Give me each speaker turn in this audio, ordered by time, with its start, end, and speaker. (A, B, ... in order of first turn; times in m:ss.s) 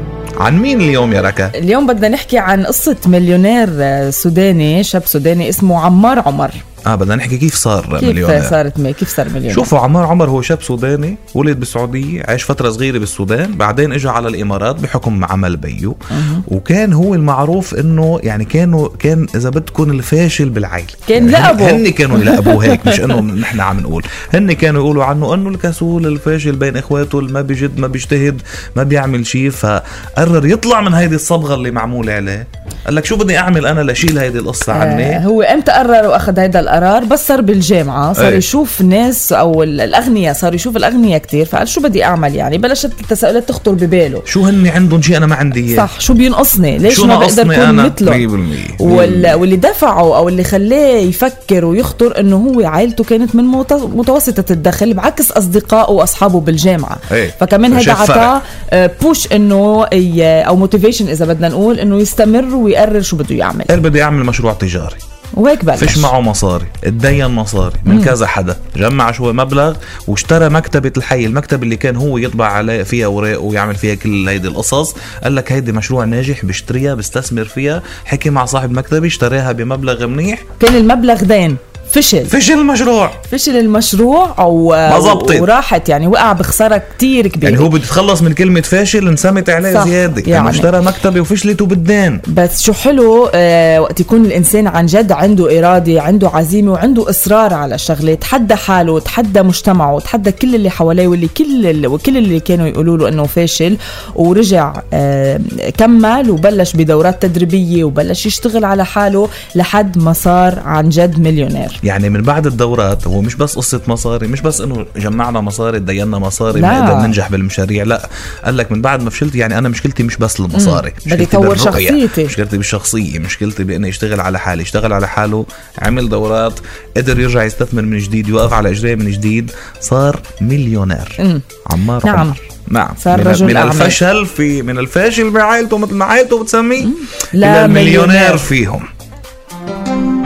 0:00.4-0:01.5 A
0:01.5-0:06.6 B
0:06.8-0:08.6 A
0:08.0-0:09.7 B
0:09.5-0:35.2 A
0:16.1-0:16.4 B
0:21.0-0:23.2 B
0:34.7-0:44.2 B
0:38.2-0:38.4 A
0:44.3-0:45.9 A
0:45.7-0:48.3 B
0:46.9-0:49.4 A
0:48.8-1:03.7 B
0:57.1-0:58.3 A
1:03.7-1:05.0 A
1:05.3-1:06.1 B
1:05.8-1:20.4 A
1:07.8-1:08.1 B
1:20.6-1:22.3 B
1:22.3-1:23.2 A
1:23.2-1:27.7 B
1:24.9-1:25.5 A
1:27.4-1:32.2 A
1:29.6-1:30.7 B
1:32.3-1:51.8 B
1:51.8-2:18.9 A
1:56.5-1:57.2 B
2:00.5-2:02.4 B
2:11.2-2:11.5 B
2:12.0-2:12.4 B
2:13.0-2:14.0 B
2:16.8-2:18.4 B